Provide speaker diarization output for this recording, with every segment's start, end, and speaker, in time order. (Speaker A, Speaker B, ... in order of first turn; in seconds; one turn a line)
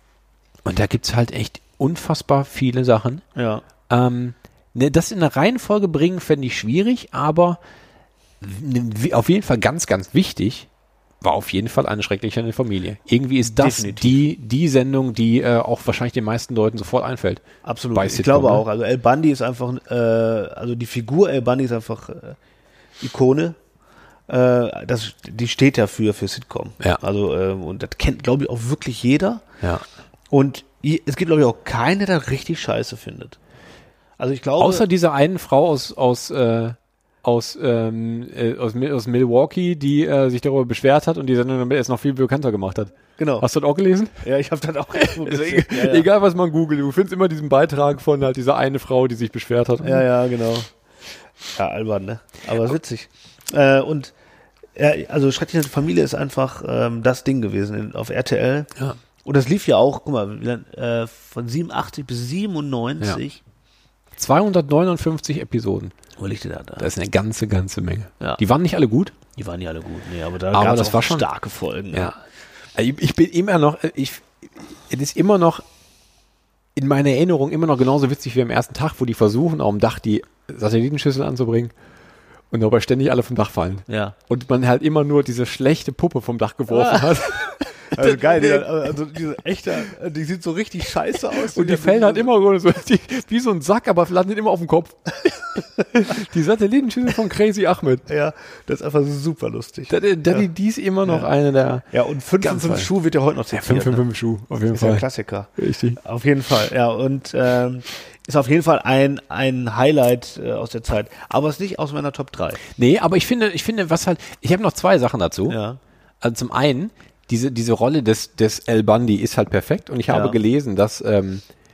Speaker A: 0.6-3.2
Speaker B: 3.4-3.6
Speaker A: 3.9-7.6
Speaker A: 8.4-10.7
Speaker A: 11.2-18.6
Speaker B: 13.4-14.2
Speaker B: 17.6-22.4
Speaker B: 23.0-23.6
Speaker B: 24.3-29.4
Speaker B: 30.3-33.4
Speaker B: 34.2-34.9
Speaker A: 34.6-44.2
Speaker B: 43.2-43.5
Speaker B: 44.2-46.1
Speaker A: 45.0-50.1
Speaker B: 49.8-50.7
Speaker B: 51.5-54.1
Speaker B: 54.8-58.7
Speaker B: 59.2-63.4
Speaker A: 64.2-65.9
Speaker B: 66.2-66.9
Speaker A: 66.8-69.1
Speaker B: 69.3-72.1
Speaker A: 70.5-71.3
Speaker A: 71.9-72.2
Speaker A: 72.7-75.6
Speaker A: 76.8-81.7
Speaker A: 82.5-88.7
Speaker B: 83.9-84.2
Speaker B: 86.7-87.3
Speaker B: 87.9-92.3
Speaker A: 91.3-98.1
Speaker B: 98.1-100.5
Speaker A: 99.9-101.8
Speaker B: 101.9-104.0
Speaker A: 102.4-102.9
Speaker A: 103.5-105.0
Speaker B: 104.7-112.6
Speaker A: 105.6-106.0
Speaker A: 112.7-115.6
Speaker B: 115.5-115.8
Speaker A: 116.2-121.4
Speaker B: 120.1-120.4